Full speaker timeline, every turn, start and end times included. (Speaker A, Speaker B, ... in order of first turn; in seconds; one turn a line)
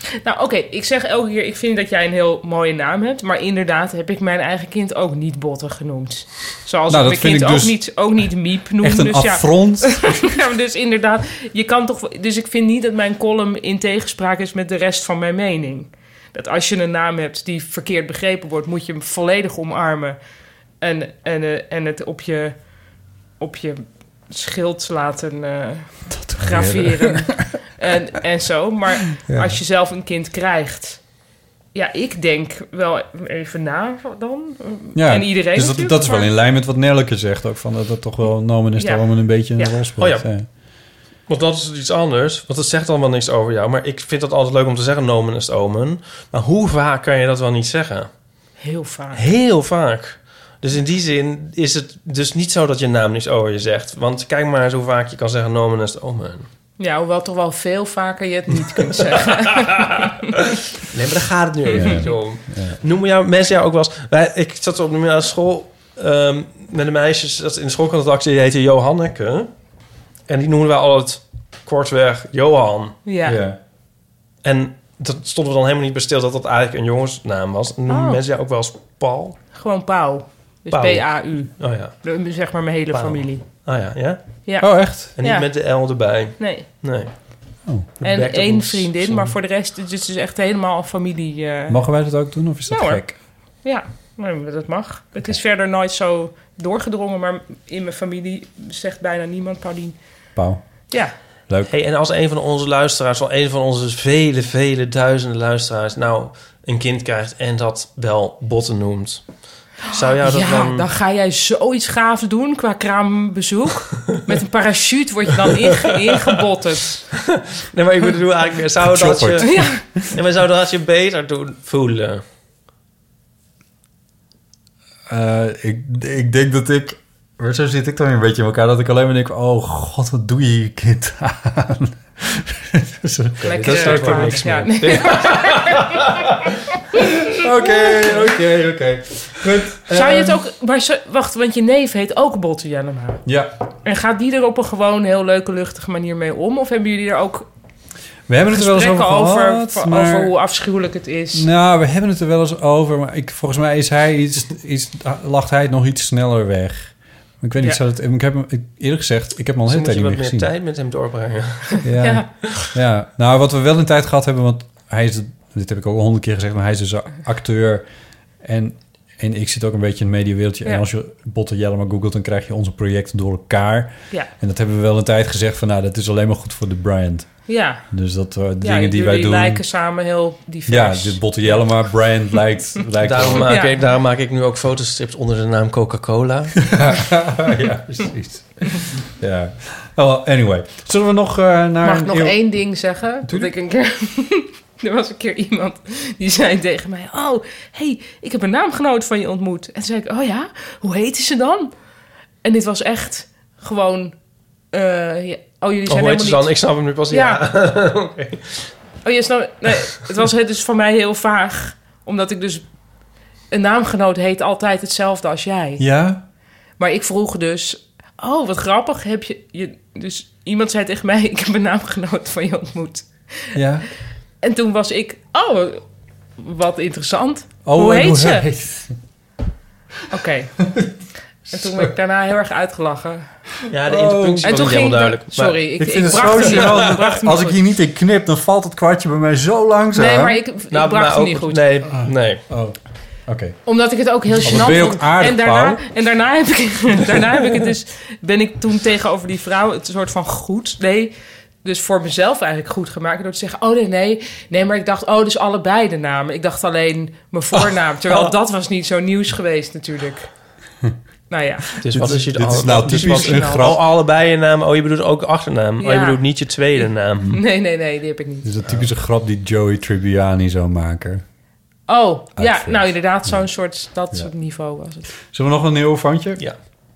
Speaker A: 0.2-20.2
Speaker B: 6.9-7.8
Speaker B: 8.8-10.3
Speaker A: 20.8-22.7
Speaker A: 23.4-31.0
Speaker B: 26.1-27.5
Speaker B: 29.2-29.6
Speaker A: 31.7-36.3
Speaker B: 34.9-40.5
Speaker A: 38.8-39.8
Speaker C: 40.0-40.3
Speaker C: 41.3-48.1
Speaker A: 48.6-49.2
Speaker C: 49.1-56.5
Speaker A: 56.8-60.1
Speaker C: 60.8-69.5
Speaker B: 61.7-62.8
Speaker C: 70.3-73.0
Speaker A: 73.0-73.4
Speaker B: 73.2-73.6
Speaker C: 74.4-79.4
Speaker A: 77.9-78.2
Speaker A: 79.5-83.4
Speaker C: 80.7-82.1
Speaker C: 82.9-84.4
Speaker A: 84.5-85.5
Speaker B: 84.6-85.1
Speaker C: 85.2-87.1
Speaker A: 86.4-86.7
Speaker C: 88.0-89.3
Speaker A: 88.0-91.8
Speaker B: 91.7-93.2
Speaker A: 92.7-100.0
Speaker B: 100.3-100.9
Speaker A: 100.9-101.1
Speaker C: 101.7-109.2
Speaker C: 109.8-110.8
Speaker A: 109.8-117.1
Speaker C: 117.6-122.2
Speaker B: 118.8-120.1
Speaker A: 119.4-119.8
Speaker B: 125.1-135.2
Speaker A: 133.4-136.0
Speaker C: 133.5-135.7
Speaker B: 136.9-140.4
Speaker A: 139.9-143.2
Speaker B: 143.2-143.5
Speaker A: 143.8-147.5
Speaker B: 148.3-150.3
Speaker A: 148.5-151.5
Speaker B: 151.3-160.5
Speaker C: 159.7-161.8
Speaker B: 161.8-167.8
Speaker A: 162.0-162.3
Speaker B: 168.4-179.6
Speaker A: 177.5-177.9
Speaker A: 178.6-181.8
Speaker B: 180.7-183.6
Speaker C: 183.0-186.7
Speaker A: 183.4-183.8
Speaker B: 186.7-192.4
Speaker A: 191.8-201.7
Speaker B: 193.2-193.5
Speaker A: 202.4-204.2
Speaker A: 204.7-206.6
Speaker C: 205.9-208.7
Speaker A: 207.1-207.4
Speaker A: 209.0-212.7
Speaker A: 213.5-215.8
Speaker B: 215.8-216.2
Speaker A: 216.8-223.6
Speaker B: 223.5-223.9
Speaker A: 224.4-225.8
Speaker A: 226.4-228.4
Speaker B: 227.6-229.0
Speaker A: 230.1-230.7
Speaker B: 231.5-231.9
Speaker A: 231.5-233.3
Speaker C: 233.7-237.0
Speaker B: 233.8-234.7
Speaker A: 234.4-237.6
Speaker B: 235.8-240.4
Speaker A: 239.9-241.7
Speaker C: 240.7-242.4
Speaker B: 241.9-243.6
Speaker A: 243.7-251.1
Speaker B: 244.4-245.8
Speaker A: 251.6-260.3
Speaker A: 261.3-261.7
Speaker C: 261.8-267.4
Speaker B: 261.9-263.8
Speaker A: 262.9-263.7
Speaker A: 265.8-268.5
Speaker B: 268.4-271.2
Speaker A: 271.9-275.1
Speaker B: 272.4-273.4
Speaker B: 275.3-276.4